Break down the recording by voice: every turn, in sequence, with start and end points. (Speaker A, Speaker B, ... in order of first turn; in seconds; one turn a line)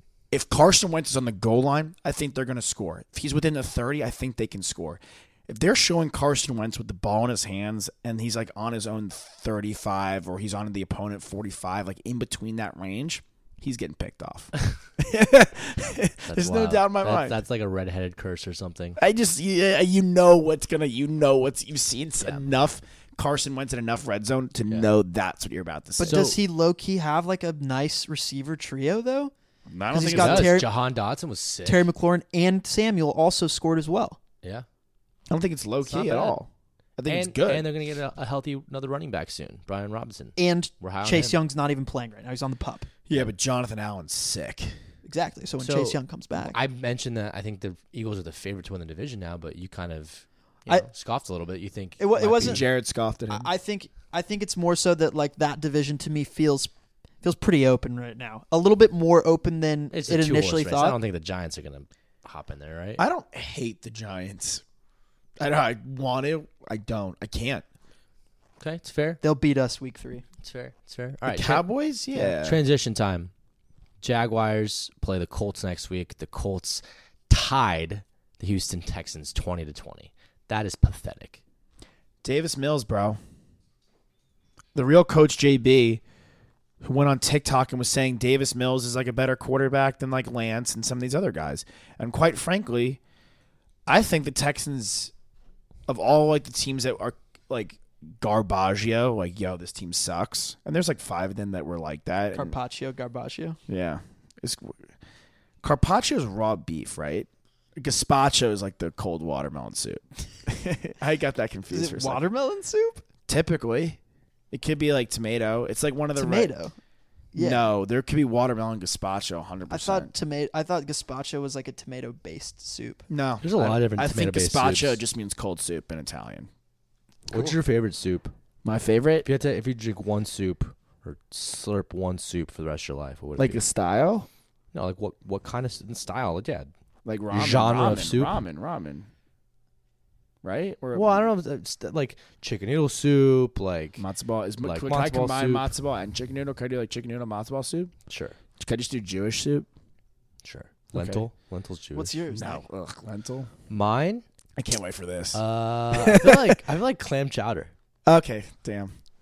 Speaker A: 0.3-17.4
Speaker B: 16.2-19.0
Speaker A: 19.0-26.3
Speaker C: 26.0-29.3
Speaker B: 26.0-26.4
Speaker A: 29.7-30.5
Speaker C: 29.9-30.7
Speaker B: 30.0-31.9
Speaker C: 31.6-34.2
Speaker A: 35.3-37.7
Speaker B: 35.9-36.4
Speaker B: 37.1-41.4
Speaker C: 40.4-42.9
Speaker A: 43.1-44.8
Speaker C: 45.0-46.5
Speaker B: 45.6-52.6
Speaker C: 52.0-52.6
Speaker A: 52.4-53.5
Speaker C: 53.3-61.0
Speaker B: 59.9-63.0
Speaker A: 63.0-64.6
Speaker A: 65.4-67.6
Speaker B: 68.6-69.2
Speaker C: 69.2-70.2
Speaker B: 70.4-73.3
Speaker A: 71.3-72.6
Speaker B: 74.0-81.4
Speaker A: 82.2-83.2
Speaker A: 84.7-86.0
Speaker A: 86.8-93.0
Speaker A: 93.9-95.1
Speaker A: 95.9-102.5
Speaker C: 102.3-103.6
Speaker A: 103.7-104.8
Speaker A: 105.6-112.2
Speaker C: 111.7-113.0
Speaker A: 113.3-114.0
Speaker A: 114.5-116.5
Speaker C: 116.2-116.7
Speaker C: 117.3-117.7
Speaker A: 117.3-120.1
Speaker C: 119.7-123.0
Speaker A: 123.1-126.5
Speaker B: 123.4-125.0
Speaker B: 127.3-128.3
Speaker A: 127.3-127.5
Speaker A: 128.6-129.3
Speaker B: 129.2-133.6
Speaker A: 133.4-134.3
Speaker B: 134.7-136.7
Speaker A: 137.0-139.1
Speaker B: 137.3-138.3
Speaker A: 140.4-141.3
Speaker B: 140.9-144.0
Speaker A: 144.0-147.9
Speaker B: 144.6-145.7
Speaker B: 148.1-148.3
Speaker A: 148.6-149.7
Speaker B: 150.4-152.2
Speaker A: 150.9-151.2
Speaker C: 151.9-152.6
Speaker A: 152.3-153.5
Speaker B: 153.7-154.2
Speaker A: 154.6-155.4
Speaker B: 155.3-157.7
Speaker A: 155.9-156.6
Speaker A: 158.1-158.9